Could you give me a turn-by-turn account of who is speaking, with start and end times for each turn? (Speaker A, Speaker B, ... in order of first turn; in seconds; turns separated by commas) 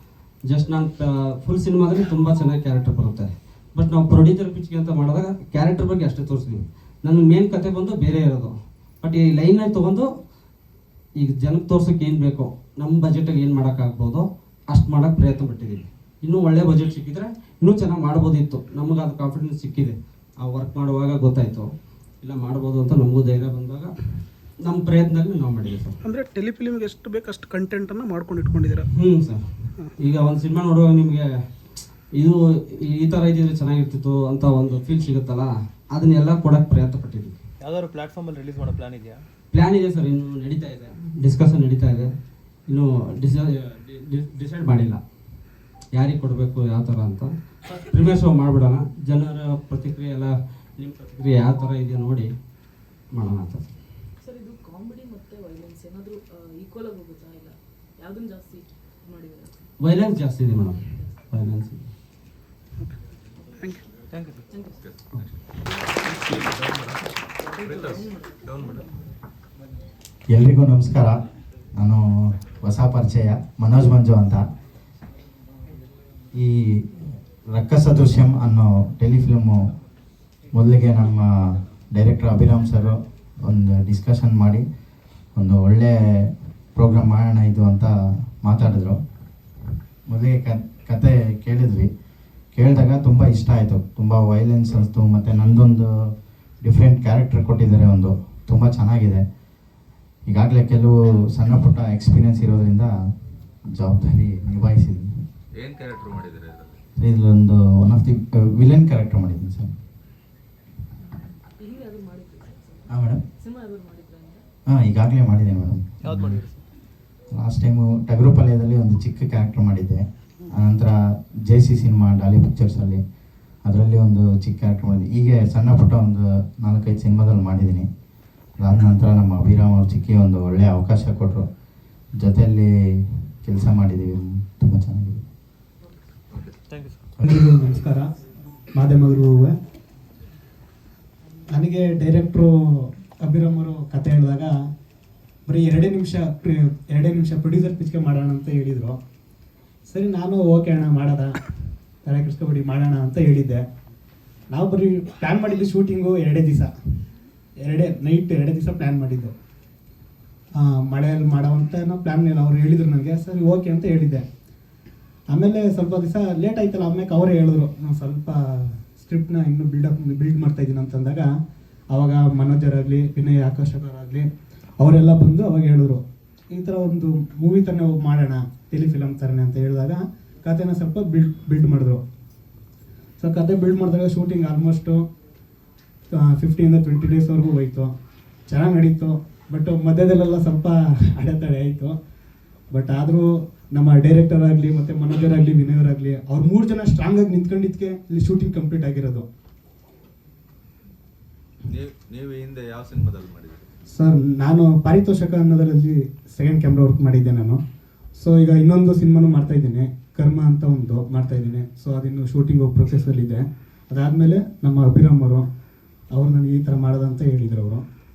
Speaker A: 0.5-10.1, Speaker A: 11.2-21.7, Speaker A: 22.2-23.9, Speaker A: 24.6-25.9, Speaker B: 26.0-28.9, Speaker A: 28.9-29.4, Speaker A: 29.9-31.2, Speaker A: 32.0-37.4, Speaker C: 37.6-39.2, Speaker A: 39.5-42.1, Speaker A: 42.7-45.0, Speaker A: 45.9-52.3, Speaker A: 53.1-53.8, Speaker D: 54.2-59.7, Speaker A: 59.8-61.9, Speaker B: 63.6-63.9, Speaker E: 64.2-65.4, Speaker D: 64.5-64.8, Speaker D: 65.6-66.4, Speaker E: 66.0-68.8, Speaker D: 67.5-69.1, Speaker F: 70.3-71.2, Speaker F: 72.6-74.4, Speaker F: 77.5-79.6, Speaker F: 80.5-81.2, Speaker F: 81.9-84.6, Speaker F: 85.3-87.9, Speaker F: 88.4-89.0, Speaker F: 90.1-91.9, Speaker F: 92.5-96.1, Speaker F: 96.6-99.2, Speaker F: 100.3-102.9, Speaker F: 103.7-105.2, Speaker E: 105.5-106.8, Speaker F: 107.0-109.7, Speaker D: 111.0-114.4, Speaker F: 112.9-113.2, Speaker F: 114.7-116.4, Speaker C: 116.0-116.6, Speaker F: 117.3-120.9, Speaker F: 121.5-123.0, Speaker F: 123.6-127.9, Speaker F: 128.6-131.4, Speaker F: 132.2-135.2, Speaker C: 136.7-136.9, Speaker G: 137.2-138.1, Speaker G: 138.7-139.6, Speaker G: 141.5-144.5, Speaker G: 145.5-149.0, Speaker G: 149.8-153.6, Speaker G: 154.5-156.7, Speaker G: 157.6-159.3, Speaker G: 160.6-164.2, Speaker G: 165.3-171.3, Speaker G: 171.9-182.0, Speaker G: 183.2-185.0, Speaker G: 186.1-187.9, Speaker G: 188.5-192.0, Speaker G: 192.7-199.2, Speaker E: 201.6-203.6, Speaker G: 203.9-207.6, Speaker G: 208.1-215.4, Speaker G: 216.1-217.8